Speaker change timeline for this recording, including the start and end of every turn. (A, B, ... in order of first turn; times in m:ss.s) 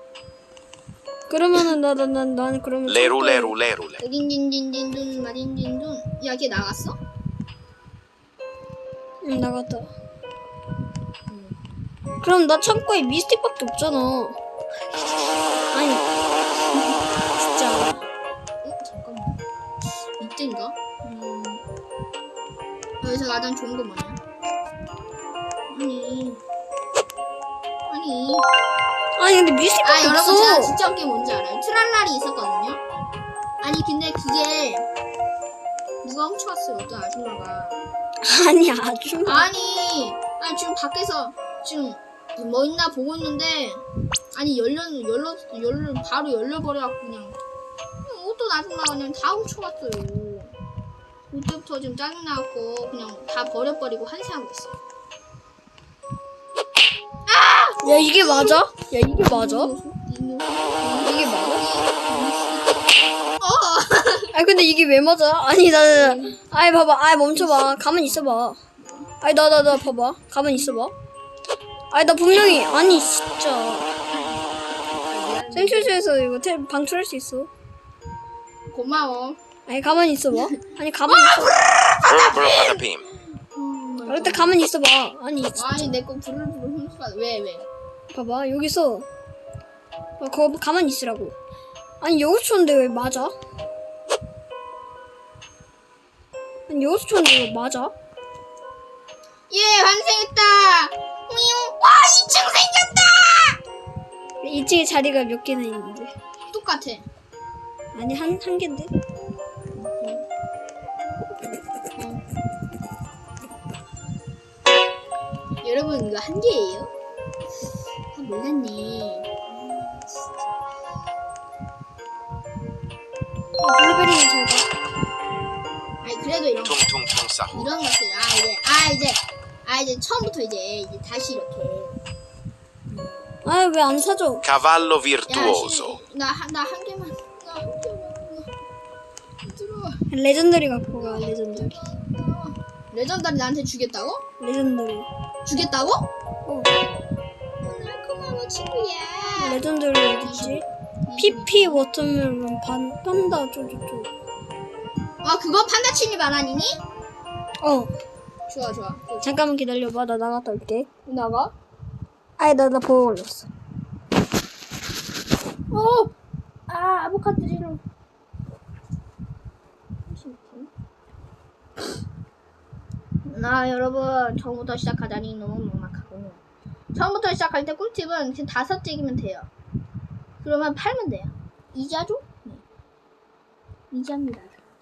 0:01.3-0:03.5 A
0:02.9-0:04.0 B
0:04.0-0:07.0 C
0:09.2-0:09.9 A
0:11.3-0:11.6 C
0:12.2-0:14.4 A
0:15.7-0:16.0 A
0:16.7-0:17.0 C
0:17.4-0:18.0 A
0:18.6-0:19.4 C
0:20.2-0:21.6 C
0:23.0-0:24.2 C
0:25.7-0:26.4 C
0:27.9-0:28.5 C
0:29.2-0:30.7 A
0:29.8-0:32.8 C
0:33.6-0:34.8 C
0:36.0-0:37.8 C
0:38.2-0:39.5 A
0:39.2-0:47.4 C
0:48.0-0:50.5 C
0:51.3-0:54.8 C
0:57.3-0:58.6 C
0:57.8-0:59.7 A
0:59.2-1:04.3 C
1:00.9-1:01.6 A
1:04.3-1:08.6 A
1:05.9-1:06.4 C
1:07.3-1:09.1 C
1:09.2-1:10.9 A
1:11.9-1:13.9 A
1:14.1-1:16.0 C
1:15.5-1:17.5 A
1:18.7-1:19.4 C
1:19.6-1:21.6 A
1:20.4-1:22.8 C
1:22.0-1:23.0 B
1:23.5-1:24.6 C
1:24.0-1:25.9 A
1:25.5-1:27.7 C
1:28.1-1:29.1 A
1:30.2-1:31.3 A
1:32.0-1:33.3 A
1:36.7-1:37.9 A
1:39.5-1:43.6 C
1:44.4-1:46.1 A
1:46.5-1:47.0 C
1:47.9-1:48.9 A
1:49.8-1:50.2 C
1:52.0-1:52.2 C
1:55.6-1:56.9 C
1:58.1-2:00.5 C
2:03.6-2:04.7 A
2:06.0-2:06.8 C
2:06.6-2:07.7 B
2:07.5-2:12.0 C
2:12.9-2:13.3 C
2:13.4-2:14.5 A
2:14.4-2:16.0 B
2:15.3-2:18.5 C
2:19.4-2:20.0 C
2:20.1-2:21.8 A
2:21.0-2:24.2 C
2:24.4-2:25.1 A
2:25.4-2:26.1 C
2:26.4-2:26.7 A
2:27.6-2:29.6 C
2:29.4-2:30.6 A
2:30.2-2:31.8 C
2:31.2-2:34.1 A
2:35.2-2:36.8 C
2:37.6-2:37.9 A
2:38.5-2:39.4 C
2:39.2-2:40.9 A
2:41.0-2:41.5 C
2:42.4-2:43.5 A
2:45.7-2:46.1 C
2:46.7-2:47.8 C
2:50.1-2:50.7 C
2:53.2-2:56.4 C
2:56.9-2:59.5 C
3:00.4-3:02.6 C
3:03.9-3:04.6 C